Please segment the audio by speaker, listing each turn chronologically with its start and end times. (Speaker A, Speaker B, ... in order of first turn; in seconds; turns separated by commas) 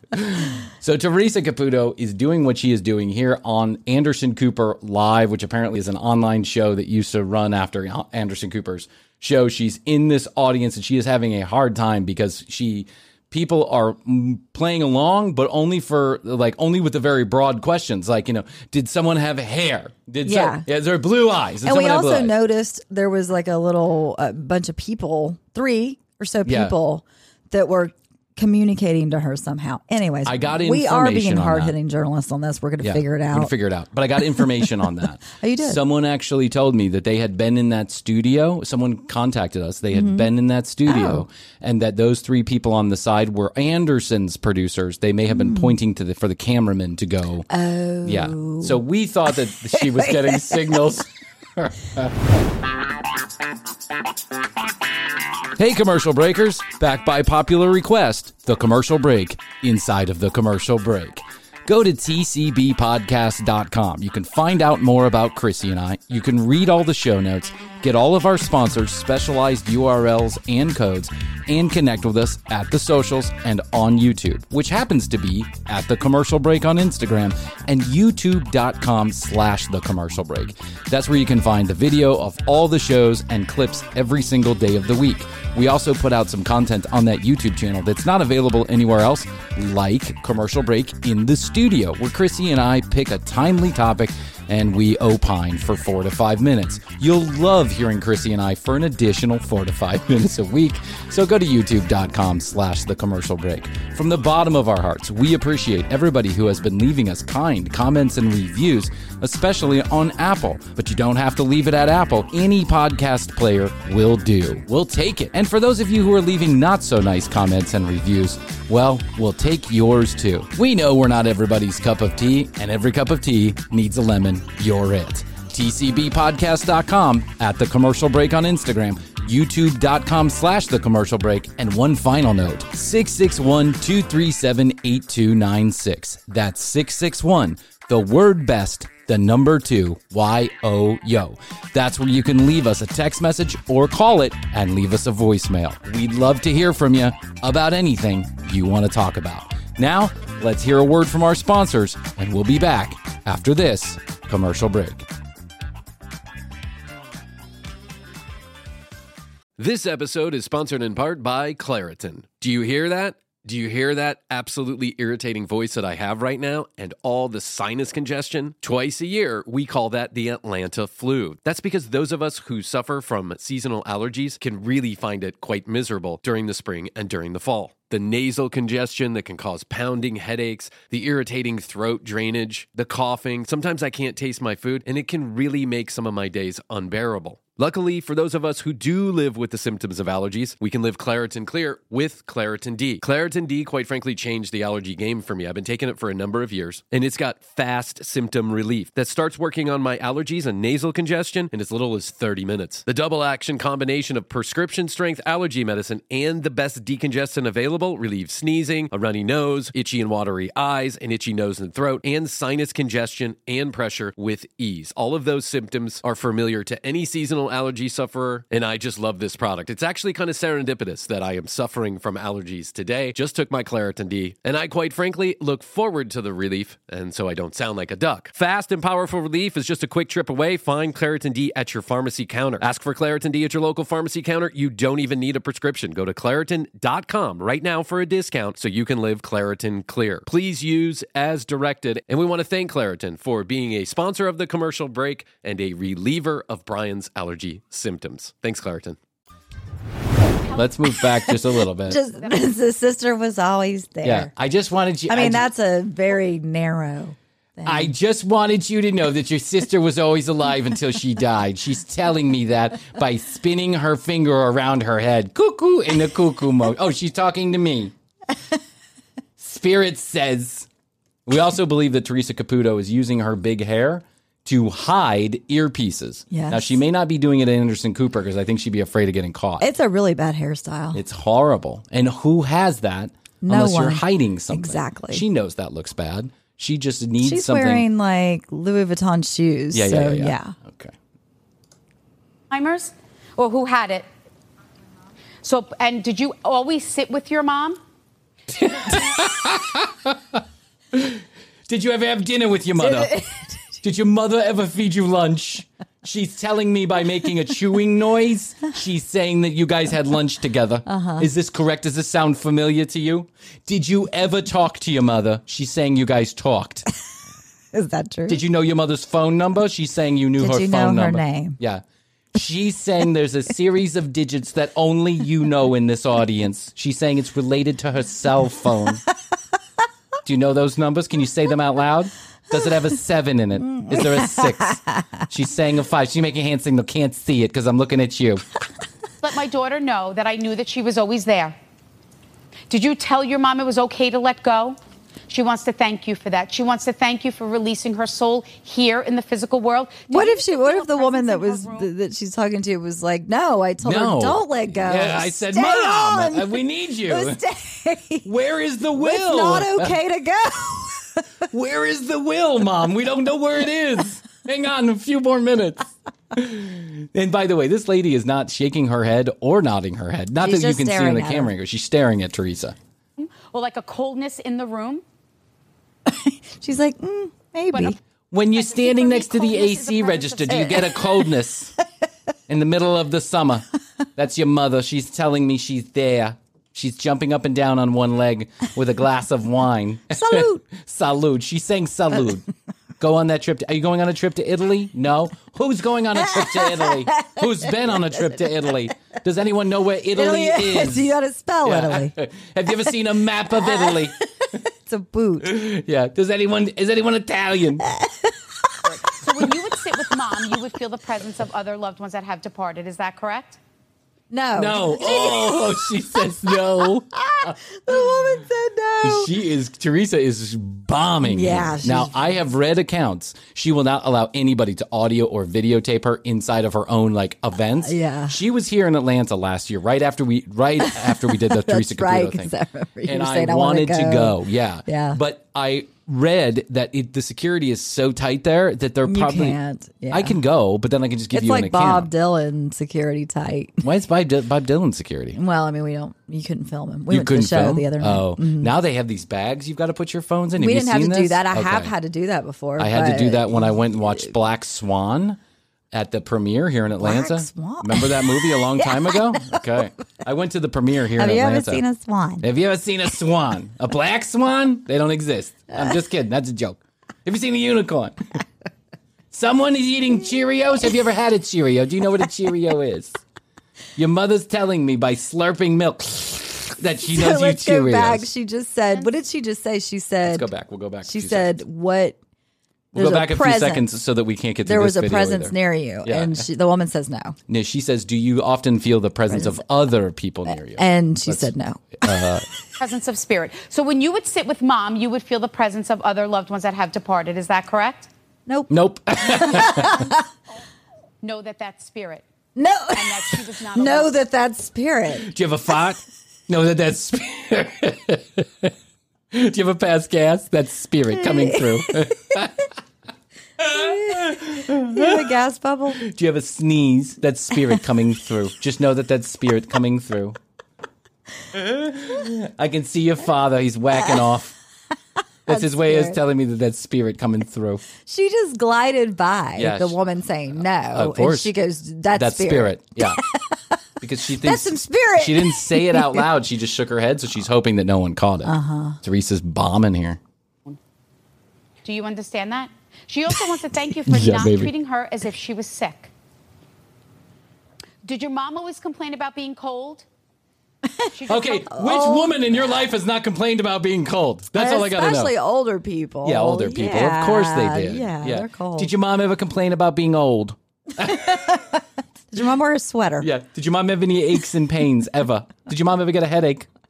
Speaker A: 0.1-22.4, Speaker B: 20.2-20.7, Speaker B: 21.6-33.5, Speaker A: 26.5-26.8, Speaker A: 30.2-31.8, Speaker A: 32.8-47.5, Speaker B: 34.4-34.7, Speaker B: 35.3-35.8, Speaker B: 39.9-40.3, Speaker B: 40.9-41.2, Speaker B: 45.3-45.8, Speaker B: 47.5-48.8, Speaker A: 48.0-52.1, Speaker B: 49.7-50.8, Speaker A: 55.6-155.1, Speaker C: 159.6-249.0, Speaker A: 250.5-252.0, Speaker B: 251.8-254.3, Speaker A: 254.0-255.5, Speaker B: 255.1-257.9, Speaker A: 257.6-267.9, Speaker A: 269.4-270.7, Speaker A: 271.3-279.7, Speaker B: 276.3-276.8, Speaker B: 279.6-281.0, Speaker A: 280.9-287.9, Speaker B: 283.4-285.2, Speaker B: 287.2-290.6, Speaker A: 289.7-290.9, Speaker D: 292.5-294.1, Speaker D: 295.4-297.8, Speaker A: 298.5-300.4, Speaker A: 300.9-303.2, Speaker B: 302.8-303.8, Speaker A: 303.8-316.9, Speaker B: 310.9-311.3, Speaker B: 317.7-318.4, Speaker A: 318.3-321.8, Speaker B: 320.4-321.6, Speaker A: 322.4-329.0, Speaker A: 330.2-338.4, Speaker B: 333.6-335.1, Speaker D: 339.2-341.6, Speaker D: 342.7-344.8, Speaker D: 345.3-351.9, Speaker B: 350.1-358.3, Speaker A: 353.8-357.4, Speaker A: 358.2-359.9, Speaker B: 359.0-361.2, Speaker A: 361.5-372.8, Speaker B: 370.4-371.5, Speaker D: 373.2-375.0, Speaker B: 376.1-378.0, Speaker D: 377.7-378.0, Speaker A: 378.3-381.7, Speaker D: 378.5-381.0, Speaker A: 382.5-383.6, Speaker A: 384.2-392.4, Speaker B: 390.1-390.6, Speaker A: 393.0-401.1, Speaker B: 396.2-398.7, Speaker B: 400.1-402.1, Speaker A: 401.6-404.1, Speaker B: 403.6-405.6, Speaker A: 405.4-407.8, Speaker B: 407.9-408.4, Speaker D: 408.8-413.6, Speaker B: 414.3-416.6, Speaker A: 414.6-418.2, Speaker B: 417.1-419.3, Speaker A: 419.0-432.5, Speaker B: 421.2-422.1, Speaker B: 427.8-428.4, Speaker B: 430.8-435.2, Speaker A: 433.0-439.6, Speaker B: 439.1-440.4, Speaker A: 440.1-442.1, Speaker B: 441.3-443.8, Speaker A: 443.8-445.4, Speaker B: 445.4-448.7, Speaker A: 447.1-451.9, Speaker B: 450.6-454.3, Speaker A: 452.8-455.4, Speaker A: 455.9-461.8, Speaker B: 457.0-459.6, Speaker B: 461.2-462.4, Speaker A: 462.4-468.2, Speaker A: 469.3-473.2, Speaker A: 474.0-478.3, Speaker B: 477.1-480.5, Speaker A: 480.3-481.6, Speaker B: 481.1-482.2, Speaker A: 482.9-486.5, Speaker B: 482.9-483.9, Speaker B: 484.6-487.4, Speaker A: 487.5-492.4, Speaker B: 489.3-489.6, Speaker B: 490.5-492.3, Speaker D: 492.8-498.1, Speaker B: 498.5-500.2, Speaker A: 498.7-500.1, Speaker D: 501.2-502.2, Speaker B: 502.6-505.3, Speaker D: 502.9-504.1, Speaker A: 505.1-508.7, Speaker A: 509.3-512.7, Speaker B: 511.2-511.9, Speaker B: 513.6-516.0, Speaker A: 513.6-515.3, Speaker A: 516.0-520.4, Speaker A: 521.5-524.5, Speaker B: 525.5-526.2, Speaker A: 525.5-527.9, Speaker B: 528.0-533.8, Speaker A: 529.6-530.0, Speaker A: 530.5-531.5, Speaker A: 532.1-533.2, Speaker A: 534.0-540.2, Speaker B: 534.4-536.2, Speaker B: 538.5-539.0, Speaker D: 541.8-546.1, Speaker A: 544.1-544.7, Speaker D: 548.0-550.1, Speaker D: 551.1-551.7, Speaker A: 551.3-555.3, Speaker B: 551.7-552.5, Speaker B: 554.5-558.9, Speaker A: 556.2-561.5, Speaker B: 561.0-561.8, Speaker B: 562.3-563.3, Speaker A: 563.2-566.7